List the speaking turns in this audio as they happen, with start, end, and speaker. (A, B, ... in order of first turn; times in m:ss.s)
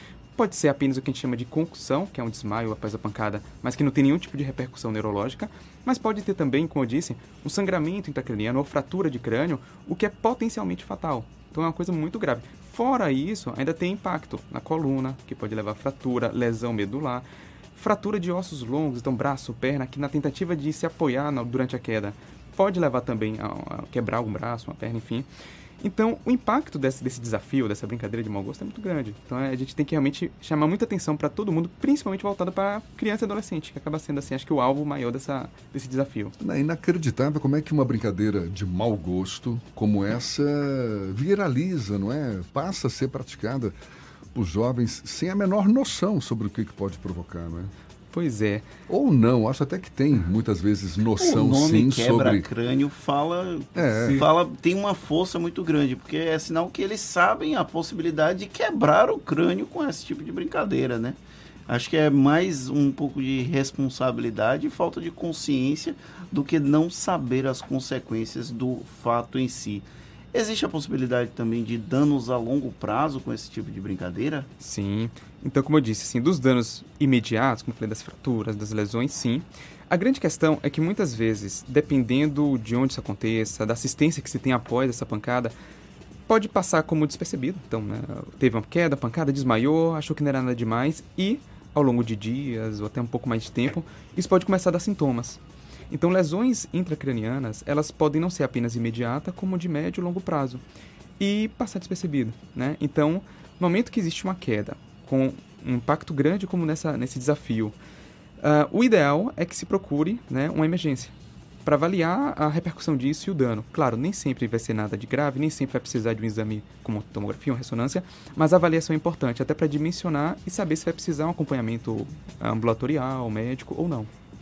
0:00.4-0:17.2 A
0:17.8-0:25.3 A
0:25.8-0:36.4 A
0:36.4-0:43.7 B
0:44.3-0:47.7 B
0:48.1-0:48.7 A
0:48.9-0:52.5 B
0:51.2-1:14.5 C
0:53.8-0:54.3 B
1:14.6-1:25.5 A
1:26.3-1:35.4 A
1:35.9-1:40.6 A
1:41.2-1:47.7 A
1:48.4-1:51.1 A
1:51.6-2:04.1 A